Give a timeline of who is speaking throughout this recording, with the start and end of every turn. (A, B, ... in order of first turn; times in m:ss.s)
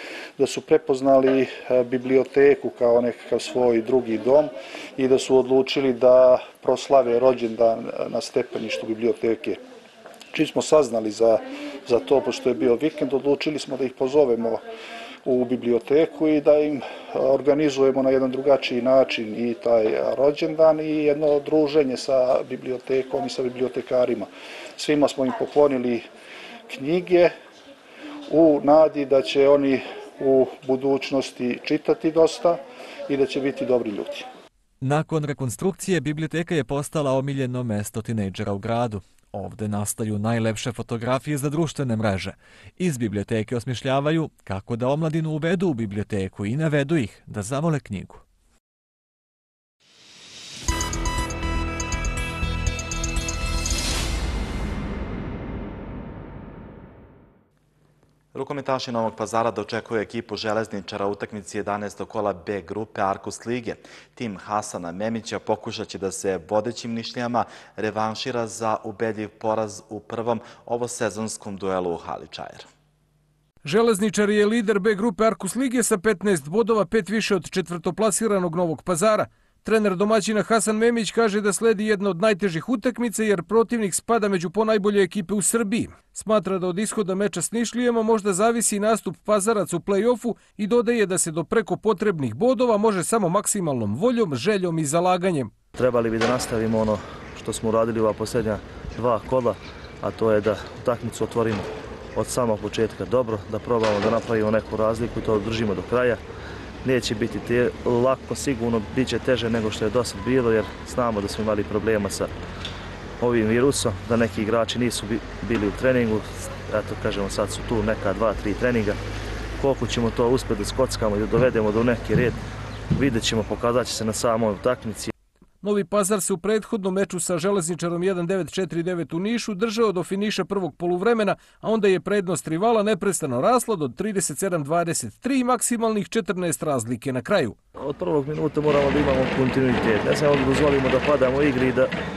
0:00.4-0:09.6 A
0:10.3-0:14.6 A
0:15.2-0:26.1 A
0:26.7-0:27.3 A
0:28.3-0:34.2 A
0:34.8-0:48.2 B
0:58.3-1:12.6 C
1:13.6-1:35.5 D
1:35.8-1:46.2 E
1:46.8-1:52.3 E
1:53.2-1:59.0 E
1:59.6-2:02.4 E
2:02.9-2:05.1 E
2:05.6-2:17.6 D
2:17.8-2:21.9 E